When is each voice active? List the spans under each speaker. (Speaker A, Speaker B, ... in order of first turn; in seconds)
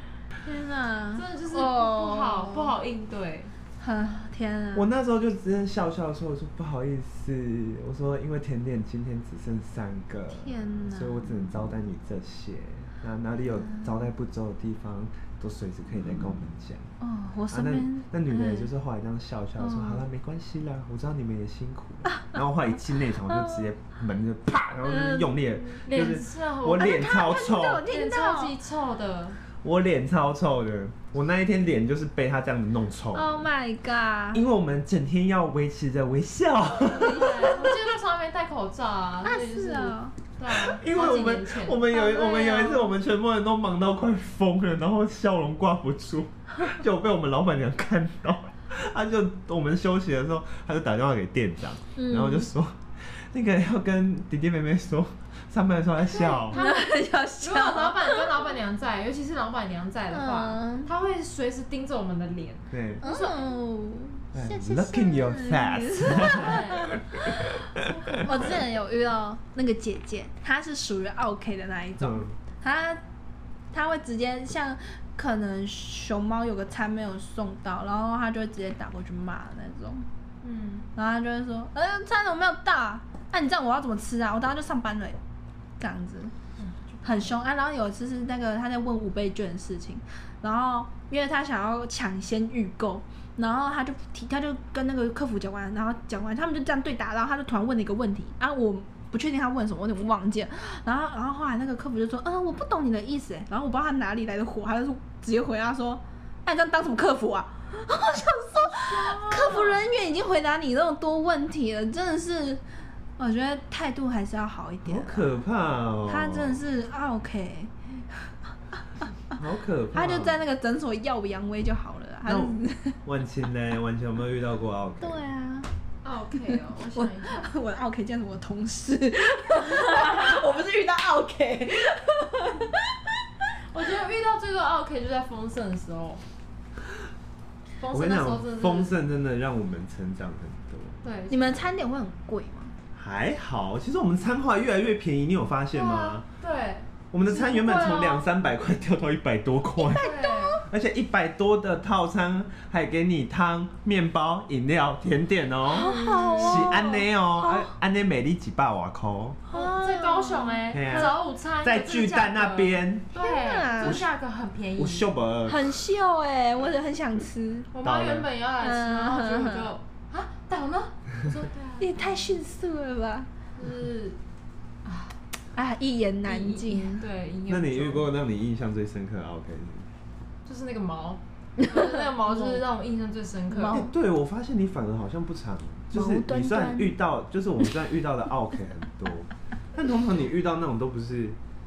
Speaker A: 0.4-2.7, 3.8-4.9, 10.3-11.3, 17.0-18.7, 19.6-20.0, 22.1-22.4, 23.3-23.6, 24.8-25.8, 26.8-28.6, 33.1-34.4, 39.2-40.1, 41.9-42.9, 52.0-52.5, 56.5-58.5, 60.1-60.9, 63.0-67.5, 68.2-73.0, 73.7-80.1, 80.9-85.2, 85.8-86.3, 87.0-112.6, 113.2-115.4, 116.1-117.7, 119.9-123.0, 125.0-125.7, 126.5-133.0, 141.3-142.7, 149.8-150.6, 155.7-157.7, 159.5-161.1, 163.2-164.0, 165.4-167.7, 168.6-169.7, 171.8-173.3, 175.5-177.0, 181.6-182.6, 183.5-183.9, 185.9-186.9
Speaker B: 1.1-3.5, 25.9-27.1, 27.8-29.4, 37.0-42.6, 56.1-63.5, 66.3-67.0, 67.9-68.6, 80.4-80.9, 86.6-87.3, 108.7-109.8, 126.0-127.5, 133.7-136.2, 137.8-138.9, 141.0-141.6, 145.7-148.3, 149.9-150.6, 155.7-156.9, 159.5-165.1, 167.7-172.4, 173.6-174.2, 174.8-175.2, 176.2-178.1, 180.4-183.8
Speaker C: 4.7-16.9, 17.5-27.9, 29.6-33.4, 34.3-37.9, 40.5-56.6, 62.7-63.0, 64.3-68.5, 72.0-72.3, 114.8-116.6, 119.3-120.4, 122.2-125.2, 137.9-141.0, 142.9-146.2, 147.1-150.1, 150.6-159.4, 160.7-163.1, 163.8-164.1, 164.8-165.7, 167.8-168.3, 177.5-179.9, 183.7-191.4